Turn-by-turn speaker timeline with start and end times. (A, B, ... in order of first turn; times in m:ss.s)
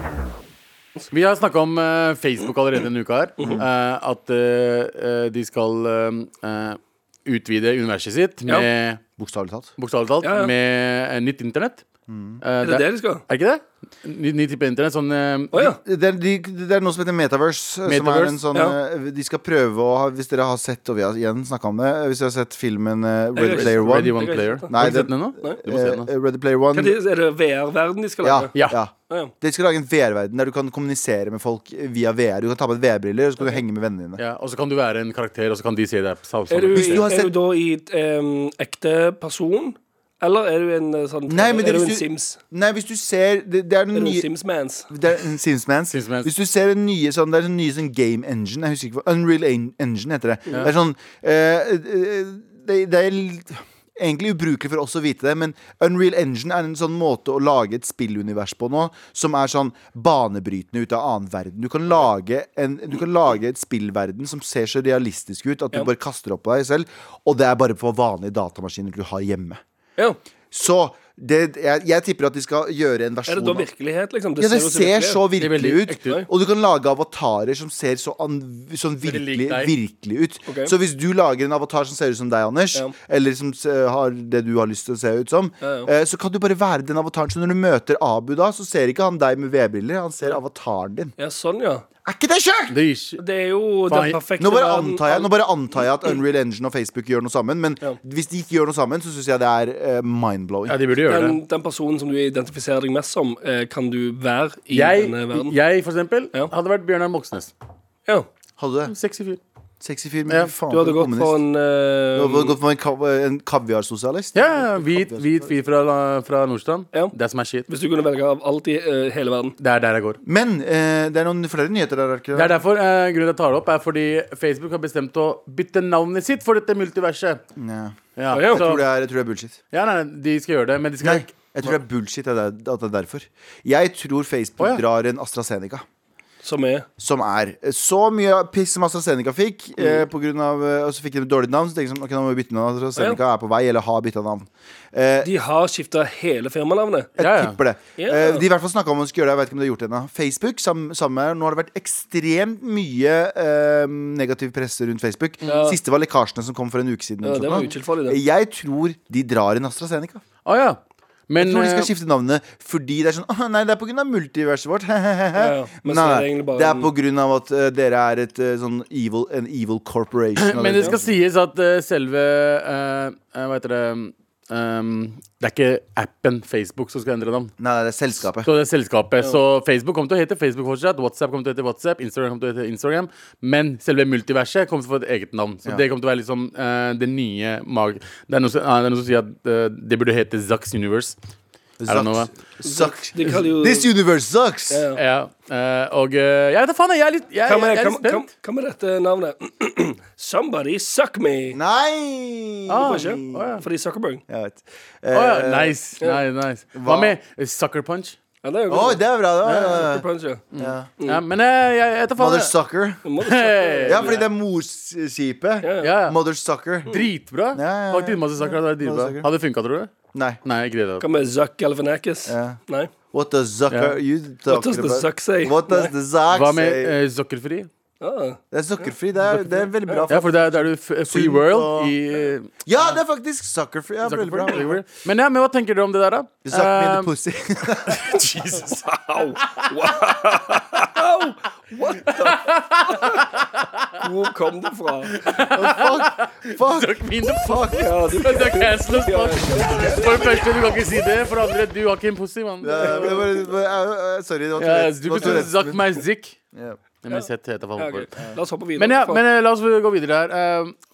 0:01.1-0:09.0 A
0:09.2-0:09.7 B
0:09.8-0:11.8 A
0:10.2-0:10.5 C
0:12.1-0:12.4 B
0:12.4-0:15.7 A
0:12.6-0:13.2 C
0:15.5-0:15.8 C
0:15.8-0:27.0 B
0:17.9-0:18.4 A
0:23.4-0:24.7 C
0:23.4-0:26.1 A
0:26.7-0:28.5 C
0:28.2-0:34.2 B
0:34.2-0:37.1 A
0:36.5-0:42.4 C
0:36.7-0:37.3 B
0:41.3-0:44.3 B
0:43.9-0:44.9 C
0:44.9-1:09.6 B
0:45.9-0:46.3 A
1:10.5-1:13.7 B
1:13.3-1:15.2 C
1:14.4-1:31.1 B
1:15.4-1:16.2 A
1:15.9-1:16.3 C
1:19.0-1:19.7 A
1:20.5-1:20.7 C
1:25.6-1:25.9 C
1:31.2-1:31.8 C
1:32.0-1:32.8 B
1:32.7-1:33.2 A
1:33.2-1:35.3 C
1:33.9-1:34.2 A
1:34.4-1:40.8 B
1:40.7-1:41.4 A
1:41.1-1:45.6 C
1:44.7-1:47.5 A
1:48.6-1:48.9 B
1:48.9-1:49.4 A
1:49.8-1:51.4 B
1:50.7-1:52.6 C
1:52.2-1:55.4 B
1:54.3-1:57.7 A
1:57.7-1:59.6 C
1:59.6-2:00.2 A
2:00.2-2:02.5 B
2:02.3-2:07.4 A
2:07.6-2:09.6 B
2:08.2-2:08.8 A
2:08.3-2:08.6 C
2:09.7-2:11.7 A
2:11.0-2:15.8 B
2:16.4-2:16.9 C
2:17.0-2:25.3 B
2:25.2-2:27.2 C
2:27.2-2:27.6 A
2:27.2-2:40.2 B
2:28.0-2:28.4 C
2:35.4-2:35.8 C
2:37.2-2:38.2 C
2:40.4-2:41.9 A
2:41.4-2:51.2 B
2:45.4-2:46.9 C
2:50.4-2:57.5 A
2:57.6-2:58.5 B
2:58.4-3:11.2 A
3:11.8-3:14.9 B
3:11.9-3:12.3 A
3:12.6-3:13.9 C
3:14.7-3:15.0 C
3:14.9-3:18.3 A
3:17.5-3:21.6 C
3:21.5-3:23.5 B
3:22.7-3:23.6 A
3:22.8-3:24.2 C
3:24.3-3:25.8 B
3:25.1-3:28.2 A
3:26.8-3:27.2 B
3:28.4-3:30.4 C
3:28.7-3:30.0 B
3:29.4-3:29.9 A
3:30.5-3:32.6 A
3:30.6-3:30.9 B
3:32.2-3:33.0 B
3:33.0-3:34.2 C
3:33.2-3:34.2 A
3:33.9-3:39.3 B
3:35.6-3:35.9 C
3:35.8-3:36.2 A
3:36.9-3:39.9 A
3:40.1-3:40.4 B
3:40.4-3:41.1 A
3:41.0-3:42.9 C
3:42.3-3:42.6 B
3:43.1-3:47.0 B
3:43.7-3:44.0 A
3:44.5-3:45.9 C
3:46.3-3:47.7 A
3:48.0-3:48.4 C
3:48.5-3:51.9 B
3:50.1-3:52.5 A
3:52.6-3:54.8 B
3:54.0-3:57.1 A
3:56.4-3:58.0 B
3:57.8-3:58.9 A
3:58.6-4:03.3 C
3:59.4-4:00.0 A
4:02.1-4:04.0 A
4:04.0-4:05.3 C
4:05.1-4:13.3 A
4:05.5-4:07.9 B
4:07.7-4:10.3 C
4:12.6-4:15.8 B
4:12.8-4:13.4 C
4:14.6-4:16.4 A
4:16.5-4:16.8 B
4:17.0-4:18.1 A
4:17.1-4:19.2 C
4:18.8-4:20.8 A